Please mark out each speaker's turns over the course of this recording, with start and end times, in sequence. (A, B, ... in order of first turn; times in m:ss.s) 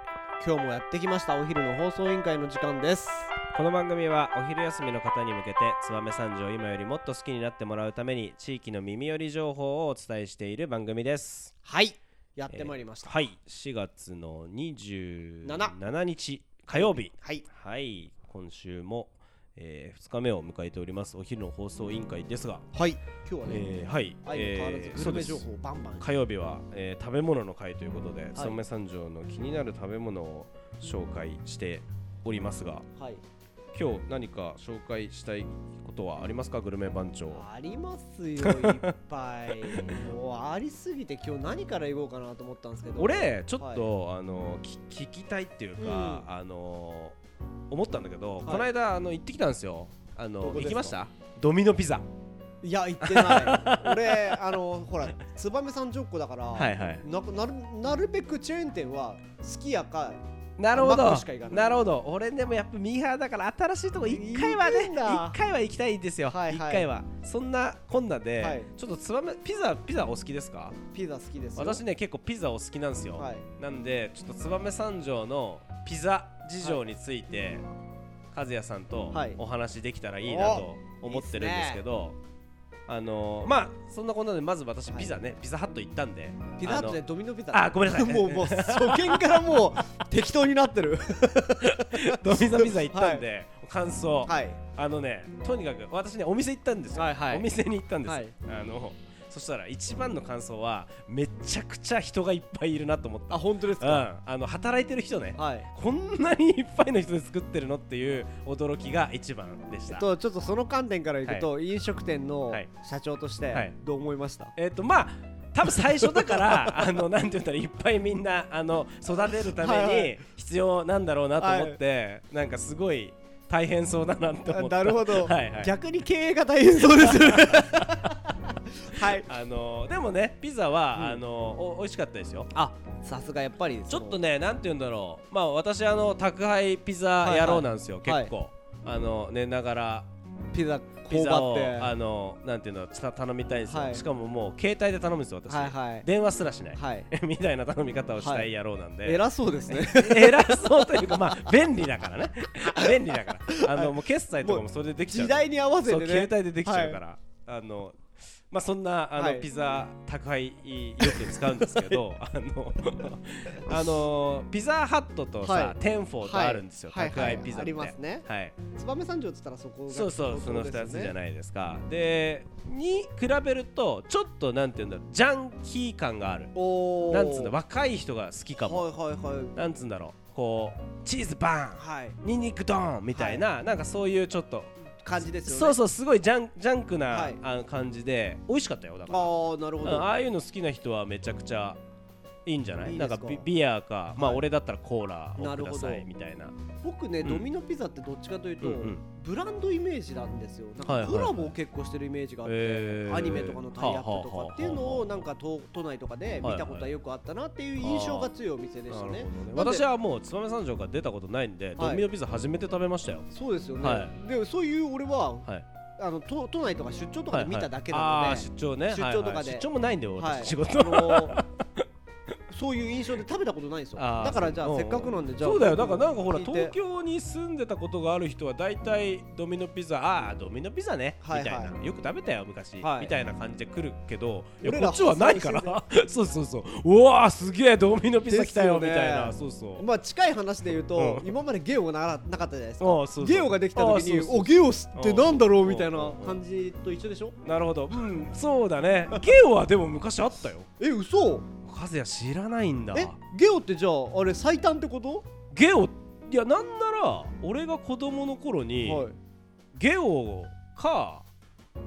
0:00.4-0:03.3 A
0:03.5-0:11.5 B
0:11.6-0:13.2 A
0:12.5-0:22.7 B
0:15.4-0:15.7 A
0:16.7-0:17.4 A
0:22.7-0:23.7 A
0:23.4-0:25.5 B
0:24.2-0:26.1 A
0:26.0-0:32.8 B
0:33.0-0:33.2 A
0:33.7-0:37.4 B
0:37.3-0:43.9 A
0:38.4-0:38.8 B
0:39.6-0:40.0 B
0:43.0-0:47.2 B
0:45.8-0:46.2 A
0:47.7-0:52.0 B
0:50.4-0:51.0 A
0:52.6-1:00.2 A
0:53.0-0:54.6 B
0:56.5-0:57.0 B
1:00.6-1:10.8 B
1:00.7-1:01.8 A
1:04.1-1:05.4 A
1:06.2-1:06.9 A
1:08.4-1:08.7 A
1:10.9-1:11.8 A
1:11.6-1:17.6 B
1:13.2-1:13.4 A
1:18.3-1:22.2 B
1:19.1-1:19.4 A
1:20.2-1:21.8 A
1:22.9-1:27.0 B
1:26.6-1:33.2 A
1:27.5-1:29.6 B
1:31.6-1:50.1 B
1:34.2-1:34.6 A
1:36.9-1:37.5 A
1:38.0-1:38.3 A
1:43.3-1:44.0 A
1:45.4-1:45.7 A
1:49.9-1:54.5 A
1:54.6-2:05.7 B
1:56.0-1:56.9 A
1:59.2-2:00.2 A
2:01.4-2:01.8 A
2:04.5-2:09.3 A
2:06.9-2:07.9 B
2:09.0-2:12.5 B
2:10.9-2:11.2 A
2:12.5-2:14.2 A
2:13.9-2:20.1 B
2:17.2-2:18.3 A
2:20.5-2:21.9 A
2:21.0-2:48.6 B
2:23.7-2:24.0 A
2:25.5-2:26.1 A
2:26.7-2:27.1 A
2:28.2-2:28.5 A
2:29.0-2:31.5 A
2:32.7-2:37.0 A
2:39.2-2:39.5 A
2:41.0-2:42.0 A
2:45.4-2:51.1 A
2:49.9-2:56.5 B
2:56.5-2:57.5 A
2:57.1-2:58.9 B
2:58.6-2:59.5 A
2:59.5-3:09.3 B
3:01.8-3:02.2 A
3:03.1-3:03.4 A
3:05.0-3:05.8 A
3:07.1-3:07.4 A
3:09.1-3:10.1 A
3:09.8-3:11.8 B
3:12.4-3:16.6 B
3:12.8-3:13.4 A
3:14.2-3:14.4 A
3:15.4-3:16.1 A
3:16.8-3:29.8 A
3:18.6-3:19.0 B
3:20.8-3:21.6 B
3:22.4-3:25.3 B
3:26.4-3:26.9 B
3:27.8-3:28.3 B
3:28.9-3:33.3 B
3:31.8-3:32.1 A
3:33.3-3:35.5 A
3:33.8-3:34.2 B
3:36.0-3:41.4 A
3:37.3-3:41.6 B
3:42.5-3:46.7 A
3:44.0-3:59.8 B
3:51.2-3:51.7 A
3:52.8-3:53.1 A
3:54.6-3:55.8 A
3:58.2-4:07.4 A
4:01.0-4:01.3 B
4:02.8-4:06.4 B
4:07.4-4:10.7 B
4:10.8-4:11.4 A
4:11.6-4:13.2 B
4:12.9-4:15.2 A
4:15.5-4:19.1 B
4:18.8-4:19.2 A
4:19.7-4:21.2 B